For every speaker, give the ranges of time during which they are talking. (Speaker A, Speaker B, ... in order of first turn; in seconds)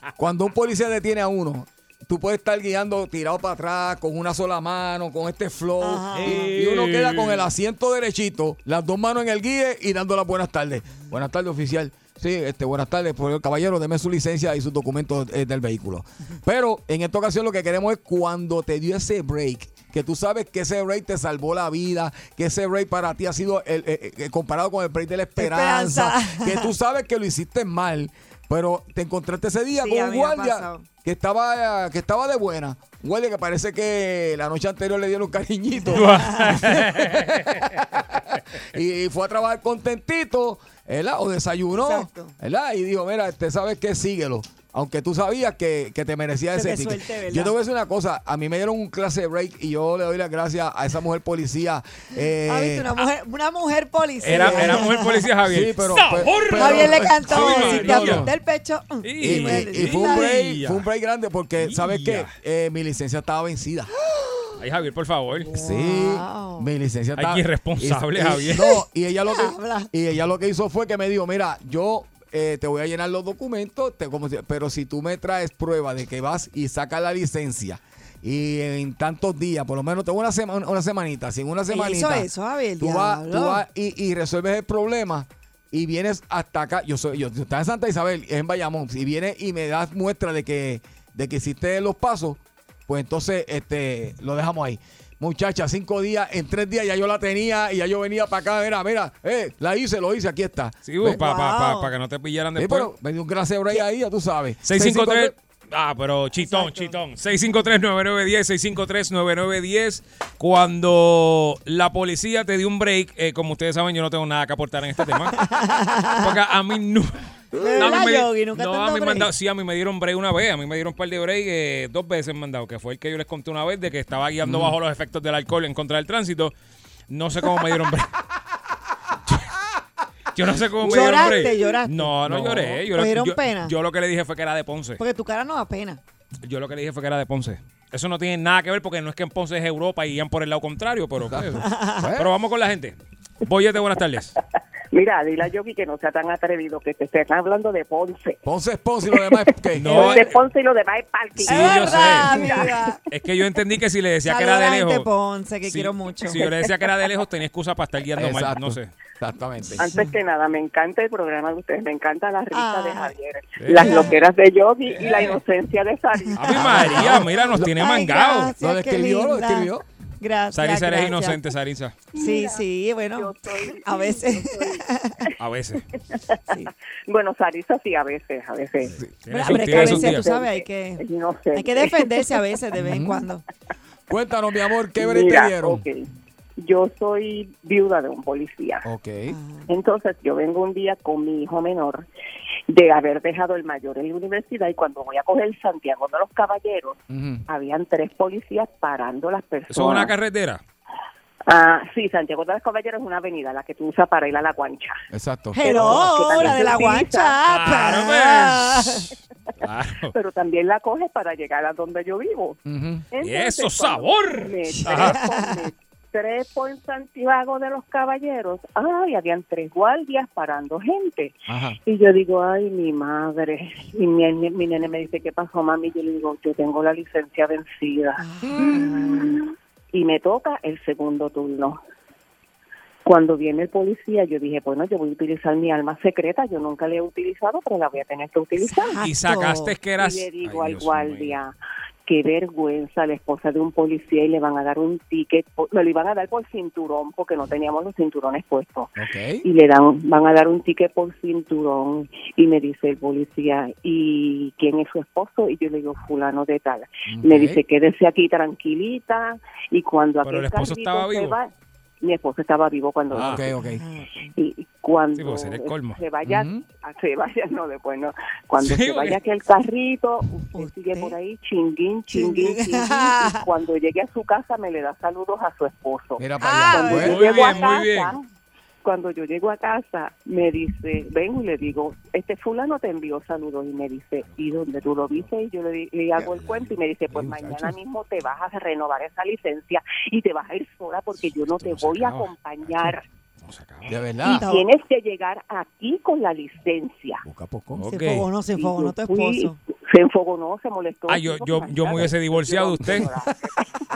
Speaker A: 0.1-52.9, 54.2-54.9, 55.4-58.3, 59.2-63.9, 65.5-82.3, 82.8-101.2, 102.5-105.3, 117.5-118.0, 124.4-124.8, 130.9-131.1, 132.3-132.8, 141.2-142.3, 148.4-150.1, 158.2-159.8, 166.5-167.4, 168.6-169.8, 178.9-179.1, 182.8-183.2, 184.1-185.8, 188.8-189.3, 197.1-197.4, 205.1-205.9, 212.7-213.0, 221.5-221.8, 228.4-228.8, 249.0-249.4, 257.1-257.6, 263.1-263.8, 266.2-266.6, 276.2-277.2, 287.1-287.7, 293.9-294.4, 297.2-297.8
Speaker B: 5.8-6.5, 25.4-26.7, 29.7-30.9, 35.9-36.7, 41.8-42.3, 46.5-47.5, 52.4-55.3, 56.5-60.3, 64.2-64.5, 65.5-66.7, 69.3-69.9, 81.7-83.6, 101.0-101.9, 106.4-107.0, 115.3-116.3, 117.5-119.3, 130.8-133.7, 135.0-136.0, 141.6-142.1, 149.9-150.4, 151.4-153.0, 154.2-156.5, 162.5-163.1, 163.7-164.2, 166.3-171.4, 172.1-175.2, 179.3-183.4, 189.3-189.7, 205.5-209.1, 214.7-215.6, 228.2-229.4, 238.6-239.8, 263.6-264.3, 270.5-271.1, 272.1-273.4, 276.4-277.8, 294.2-294.7, 297.9-299.6
Speaker C: 6.2-7.5, 35.9-37.8, 54.2-58.3, 59.0-60.8, 61.6-62.3, 64.6-65.5, 67.2-68.8, 100.8-102.9, 104.6-115.4, 116.2-117.2, 117.7-126.5, 127.1-128.1, 130.3-135.0, 136.4-144.3, 149.8-150.4, 151.4-152.4, 153.1-155.1, 155.6-158.9, 163.6-164.2, 165.0-165.3, 166.3-168.5, 170.5-172.0, 175.4-175.8, 179.2-180.3, 199.7-200.6, 205.8-206.5, 207.4-209.0, 209.6-210.1, 213.2-215.2, 239.0-241.4, 260.2-261.4, 263.1-263.4, 265.2-266.0, 268.6-269.2, 277.0-278.1, 286.3-286.7, 291.6-292.3, 293.4-294.0, 297.7-298.3, 301.1-303.1
Speaker D: 144.9-148.4, 149.2-152.9, 156.4-156.7, 159.8-167.0, 172.1-174.8, 177.1-182.4, 184.9-186.1, 186.6-188.8, 189.7-192.1, 192.7-200.1, 201.5-205.0, 205.6-207.4, 210.1-212.6, 213.1-231.8, 233.0-239.0, 239.9-241.5, 242.1-248.9, 249.4-263.5, 264.3-278.2, 278.8-293.1, 294.2-297.2, 298.4-303.6